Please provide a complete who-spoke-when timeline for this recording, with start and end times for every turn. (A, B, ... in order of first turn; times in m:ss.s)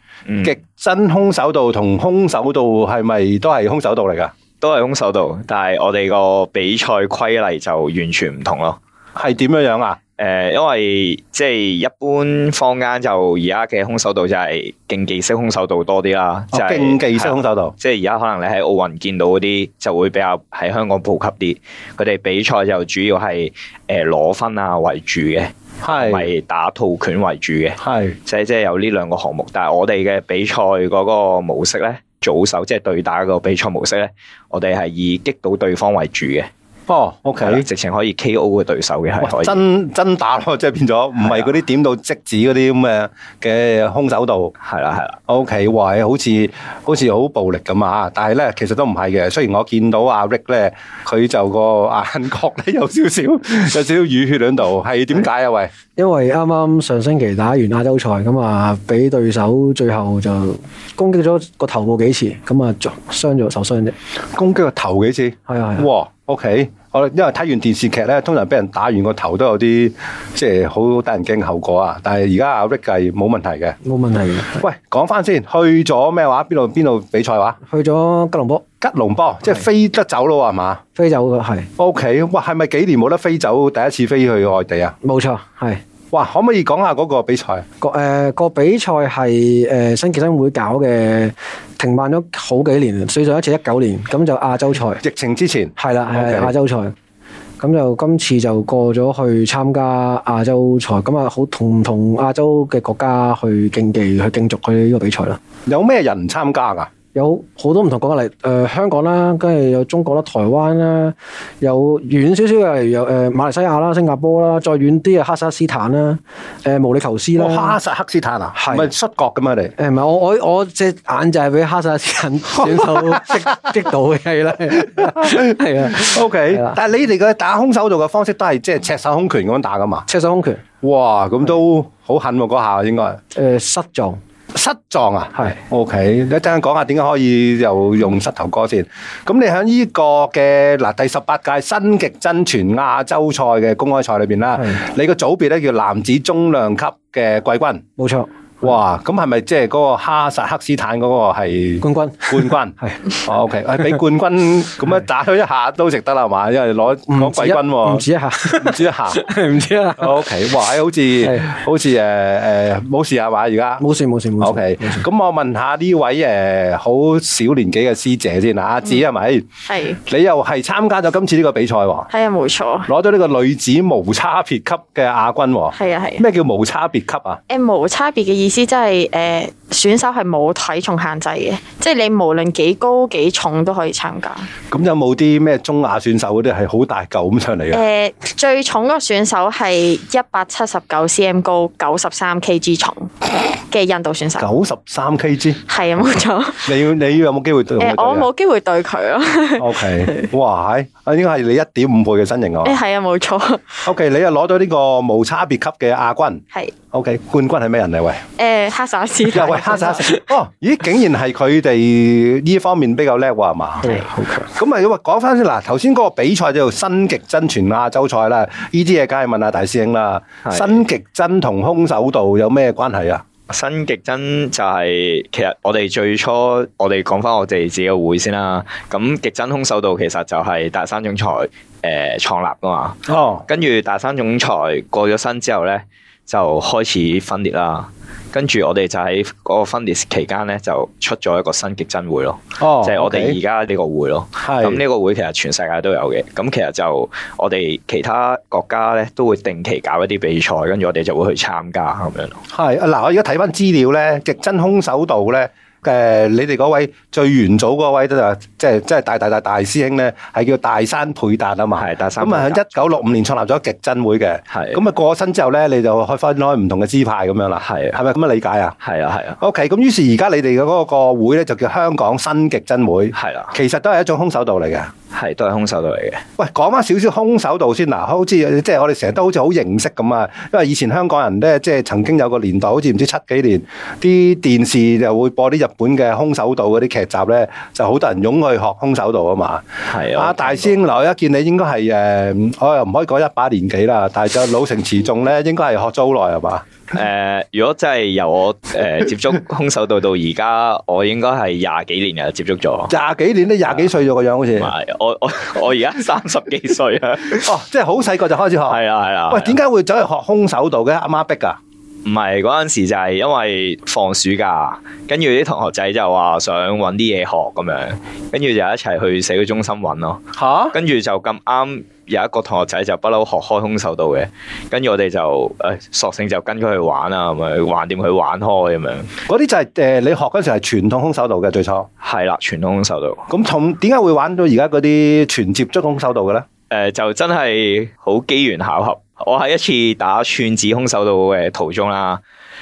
0:00.3-0:00.6 A
0:00.4-0:04.3 B
0:04.6-0:08.8 A
0:09.1-0:10.0 B
0:10.2-0:36.5 A
0:16.5-0:17.7 B
0:25.8-0:26.3 B
0:27.8-0:28.2 B
0:36.9-0:37.6 B
0:37.4-0:39.6 A
0:39.2-0:44.5 B
0:44.6-0:45.2 A
0:45.3-0:55.7 B
0:56.0-1:03.9 C
1:04.3-1:13.8 B
1:05.5-1:05.9 C
1:13.8-1:14.6 C
1:14.6-1:17.6 B
1:17.6-1:18.6 C
1:18.8-1:20.8 B
1:20.9-1:21.7 C
1:21.8-1:24.9 B
1:25.0-1:25.8 C
1:26.1-1:27.6 B
1:27.8-1:35.0 C
1:35.0-1:36.5 B
1:35.8-1:36.9 C
1:37.6-1:45.4 C
1:45.6-1:46.9 B
1:47.1-1:57.8 C
1:57.4-1:59.7 B
1:58.5-1:58.9 C
1:59.8-2:06.8 C
2:02.6-2:03.4 B
2:05.0-2:10.0 B
2:10.1-2:10.6 C
2:10.8-2:13.2 B
2:13.3-2:14.2 C
2:14.5-2:27.8 B
2:28.0-2:28.3 C
2:28.6-2:38.0 B
2:31.8-2:33.0 C
2:37.1-2:40.5 C
2:38.6-2:39.2 B
2:40.0-2:43.8 B
2:41.2-2:41.5 C
2:43.8-2:45.0 C
2:44.4-2:49.4 B
2:49.7-2:50.0 D
2:50.0-2:52.1 B
2:52.1-2:52.9 D
2:52.9-2:57.4 B
2:55.7-2:56.2 D
2:57.5-3:04.5 D
3:04.7-3:07.8 B
3:07.7-3:14.5 D
3:14.4-3:15.6 B
3:15.7-3:16.7 D
3:16.6-3:18.3 B
3:17.8-3:20.2 D
3:19.6-3:22.8 B
3:22.6-3:23.9 D
3:23.8-3:28.2 B
3:28.4-3:30.2 D
3:29.2-3:33.9 B
3:33.8-3:34.5 C
3:34.5-3:43.2 B
3:40.4-3:40.8 A
3:43.5-4:12.4 A
3:53.1-3:53.4 B
4:02.6-4:03.4 B
4:04.4-4:04.8 B
4:12.5-4:28.8 B
4:21.8-4:23.0 A
4:24.5-4:24.8 A
4:27.6-4:28.0 A
4:28.8-4:29.4 A
4:29.4-4:34.9 B
4:33.1-4:33.5 A
4:35.1-4:36.2 A
4:36.4-4:56.7 B
4:49.9-4:50.8 A
4:56.9-5:02.9 A
5:02.9-5:04.7 B
5:04.6-5:07.5 A
5:07.3-5:11.6 B
5:08.7-5:09.6 A
5:12.0-5:20.2 A
5:20.3-5:20.8 B
5:20.7-5:29.1 A
5:29.2-5:31.9 B
5:32.0-5:33.2 A
5:33.3-5:36.4 B
5:36.7-5:42.2 A